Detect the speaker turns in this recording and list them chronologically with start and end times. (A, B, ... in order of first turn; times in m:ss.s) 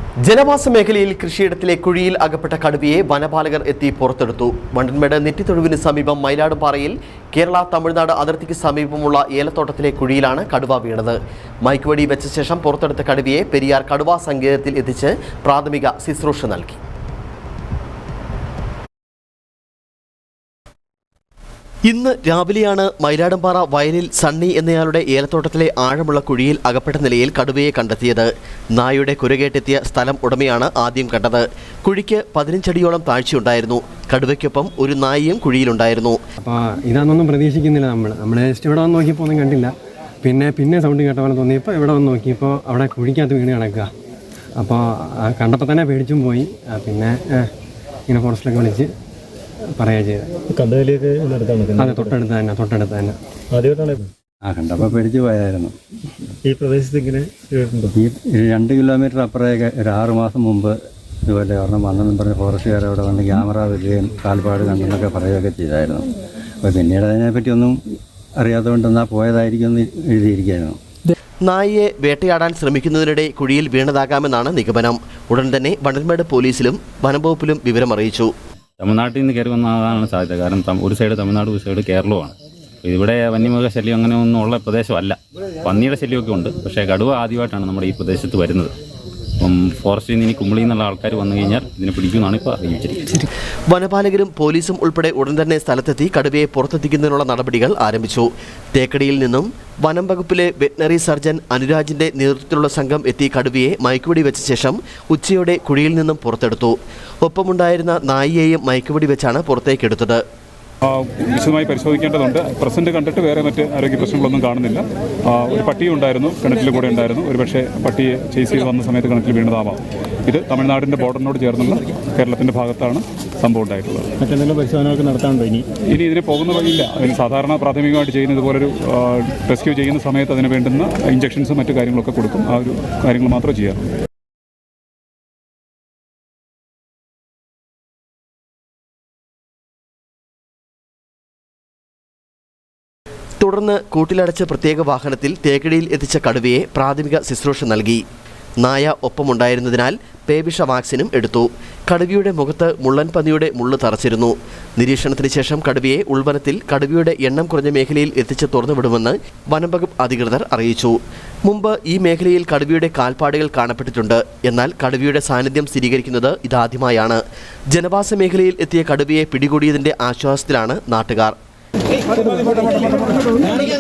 0:00.3-0:16.8 A
0:21.9-0:36.2 A
0:36.4-0:39.7 B
0:40.2-0:43.9 B
0:44.6-0:47.5 B
0:48.1-0:48.9 B
0:49.8-0:50.3 B
0:50.5-0:52.0 C
0:51.8-0:53.2 B
0:53.5-0:54.1 C
0:54.4-0:55.7 D
0:56.4-0:57.9 C
0:57.9-1:00.7 D
1:01.3-1:06.1 D
1:06.6-1:07.8 D
1:08.4-1:10.8 D
1:11.4-1:18.3 A
1:18.8-1:28.7 E
1:29.4-1:33.3 E
1:33.7-1:50.2 A
1:50.8-2:04.1 F
2:04.2-2:05.6 C
2:05.9-2:13.8 F
2:23.4-2:28.0 A
2:28.6-2:47.2 A
2:47.7-2:51.3 A